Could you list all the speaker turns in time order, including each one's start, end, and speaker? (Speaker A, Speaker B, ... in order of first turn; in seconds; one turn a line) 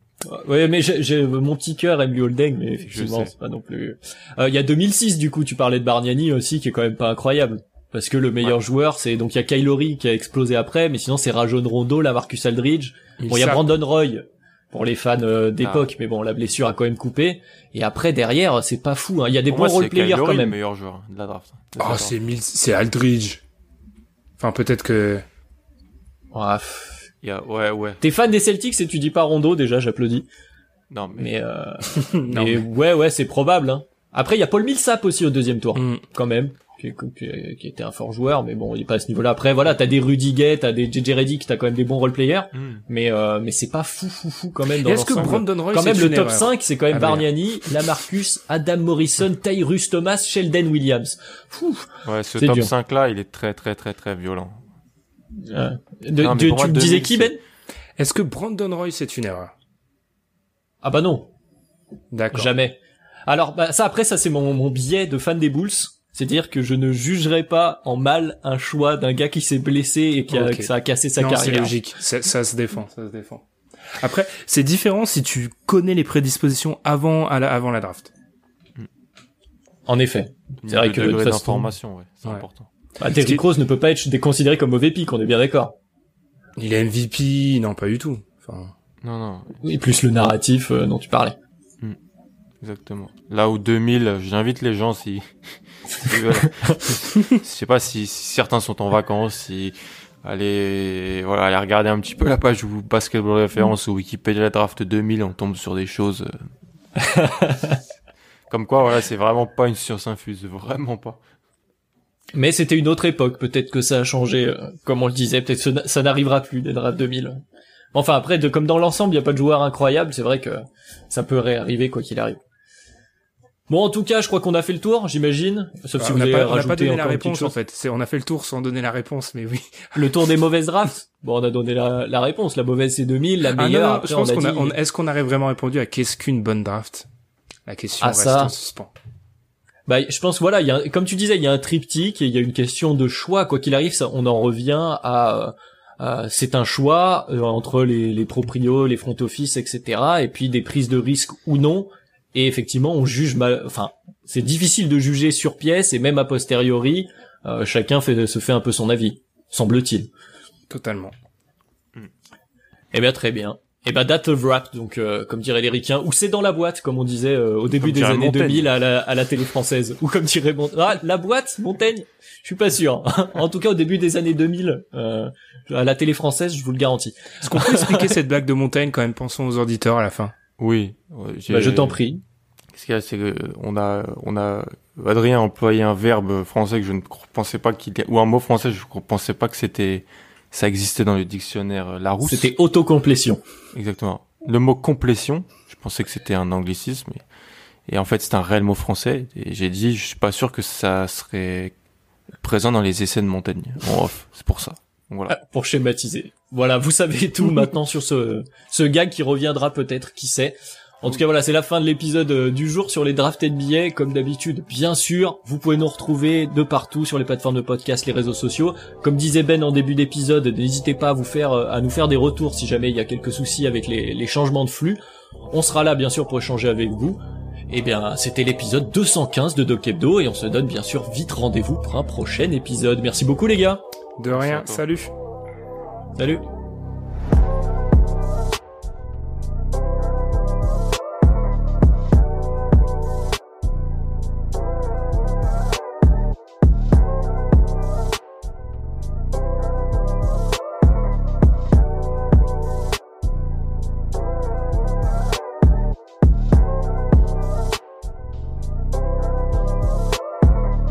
Speaker A: 0.2-20.6
Speaker B: 2.8-3.3
Speaker C: 13.2-13.8
Speaker B: 15.6-15.9
Speaker B: 19.5-22.1
Speaker C: 21.8-23.4
Speaker C: 24.4-25.2
Speaker A: 26.3-27.1
Speaker B: 27.2-28.0
Speaker A: 28.0-30.3
Speaker B: 30.9-31.3
Speaker A: 31.2-52.7
Speaker C: 31.9-32.6
Speaker C: 35.7-36.0
Speaker B: 42.5-42.8
Speaker C: 44.8-47.3
Speaker B: 52.0-54.6
Speaker A: 55.4-57.4
Speaker B: 56.2-57.3
Speaker C: 58.0-59.5
Speaker A: 60.8-61.3
Speaker C: 62.1-62.5
Speaker A: 62.3-71.7
Speaker C: 70.3-78.1
Speaker A: 79.9-81.7
Speaker B: 80.6-82.7
Speaker A: 83.0-85.7
Speaker C: 83.2-83.4
Speaker C: 86.5-88.7
Speaker B: 89.0-89.6
Speaker A: 89.6-91.4
Speaker B: 92.6-106.3
Speaker A: 107.0-107.8
Speaker B: 108.5-111.2
Speaker A: 112.3-117.4
Speaker A: 117.9-122.4
Speaker A: 123.7-127.5
Speaker C: 126.0-130.1
Speaker A: 129.9-134.7
Speaker C: 133.5-137.1
Speaker C: 137.7-138.9
Speaker A: 138.0-138.5
Speaker A: 139.9-160.1
Speaker C: 160.7-161.1
Speaker A: 162.9-178.1
Speaker B: 167.7-168.7
Speaker C: 177.4-180.3
Speaker B: 180.6-182.0
Speaker A: 181.5-182.2
Speaker B: 182.7-192.5
Speaker A: 192.2-193.4
Speaker B: 193.7-197.2
Speaker B: 197.9-201.7
Speaker B: 202.4-205.3
Speaker A: 205.3-233.8
Speaker C: 234.2-235.1
Speaker B: 234.3-234.8
Speaker A: 236.2-236.4